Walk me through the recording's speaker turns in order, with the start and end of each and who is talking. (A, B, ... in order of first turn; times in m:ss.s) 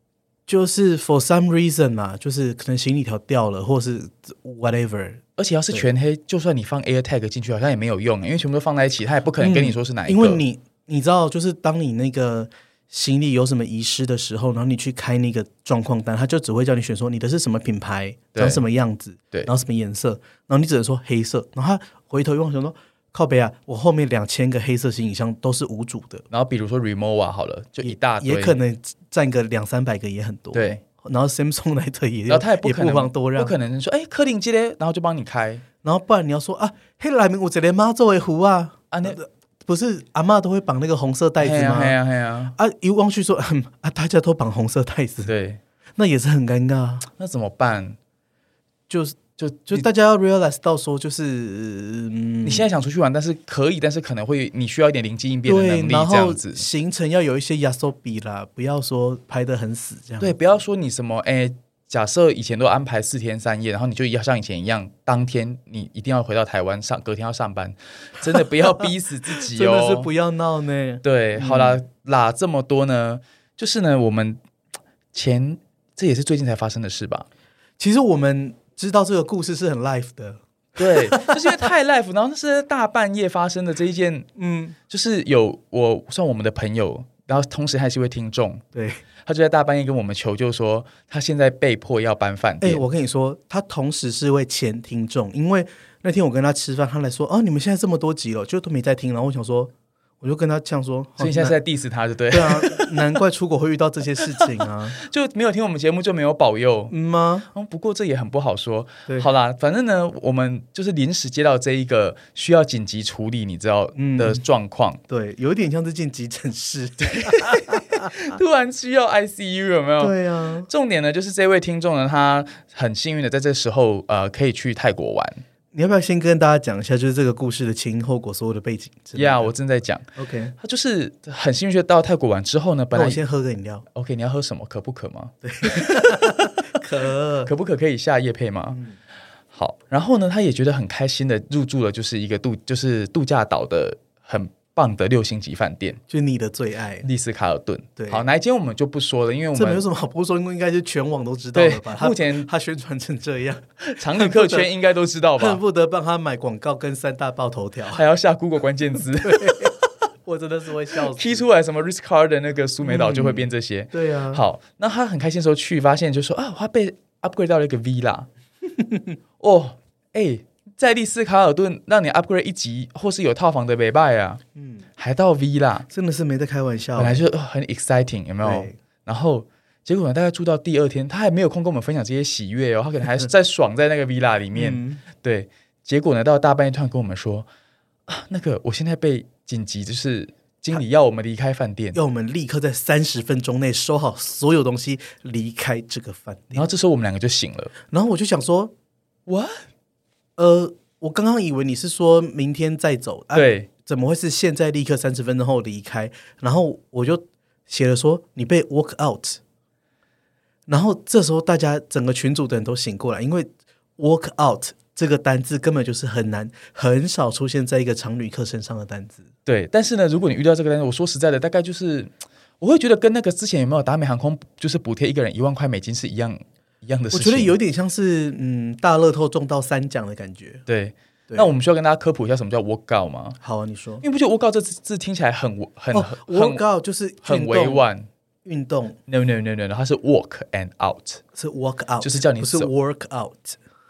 0:00.5-0:05.9 A
0:05.4-0:10.4 B
0:09.4-0:26.2 A
0:18.3-0:18.6 B
0:26.3-0:28.6 B
0:27.8-0:33.5 A
0:30.5-0:30.8 B
0:32.3-0:35.6 B
0:35.8-0:42.0 A
0:38.9-0:39.2 B
0:41.4-0:42.5 B
0:42.5-0:45.3 A
0:45.2-0:45.6 B
0:46.0-0:47.1 A
0:47.2-0:48.0 B
0:48.9-0:52.6 A
0:49.4-0:49.8 B
0:52.4-0:56.6 B
0:55.4-1:00.4 A
1:00.2-1:10.1 B
1:09.5-1:11.8 A
1:11.0-1:14.4 B
1:15.1-1:17.3 B
1:17.8-1:21.7 A
1:20.8-1:24.3 B
1:24.4-1:24.8 A
1:24.9-1:28.6 B
1:28.7-1:29.0 A
1:29.2-1:32.8 B
1:32.6-1:41.6 A
1:41.2-1:43.0 B
1:42.3-1:45.0 A
1:44.4-1:46.9 B
1:46.9-1:47.5 A
1:47.5-1:55.0 B
1:54.0-1:54.4 A
1:55.1-1:58.3 A
1:57.0-2:00.1 B
2:00.0-2:00.7 A
2:00.7-2:05.4 B
2:05.7-2:09.5 A
2:09.2-2:10.0 B
2:10.2-2:10.5 A
2:10.6-2:13.2 B
2:12.9-2:13.8 A
2:13.9-2:16.5 B
2:15.4-2:17.5 A
2:17.5-2:18.8 B
2:18.7-2:19.0 A
2:19.5-2:26.0 B
2:26.1-2:27.1 A
2:27.0-2:29.8 B
2:28.0-2:28.2 A
2:29.5-2:34.7 A
2:31.5-2:32.5 B
2:33.8-2:35.6 B
2:35.4-2:38.0 A
2:37.9-2:39.8 B
2:39.2-2:39.7 A
2:40.2-2:41.4 A
2:40.9-2:48.3 B
2:42.8-2:44.4 A
2:48.8-2:49.1 A
2:49.4-2:54.4 B
2:54.6-2:54.8 A
2:55.0-2:55.9 B
2:55.9-2:57.2 A
2:57.0-3:07.5 B
2:58.4-2:58.8 A
3:04.5-3:05.0 A
3:08.1-3:12.0 B
3:11.9-3:16.6 A
3:16.5-3:17.7 B
3:17.9-3:18.7 A
3:19.3-3:19.6 B
3:20.4-3:29.4 A
3:23.3-3:23.7 B
3:30.7-3:39.3 A
3:39.4-3:47.5 B
3:47.1-3:50.6 A
3:50.7-3:53.4 B
3:53.4-3:54.0 A
3:54.0-3:56.6 B
3:55.9-3:57.8 A
3:57.2-3:58.1 B
3:58.4-3:59.0 A
3:59.1-4:01.2 B
4:01.3-4:03.6 A
4:02.0-4:02.7 B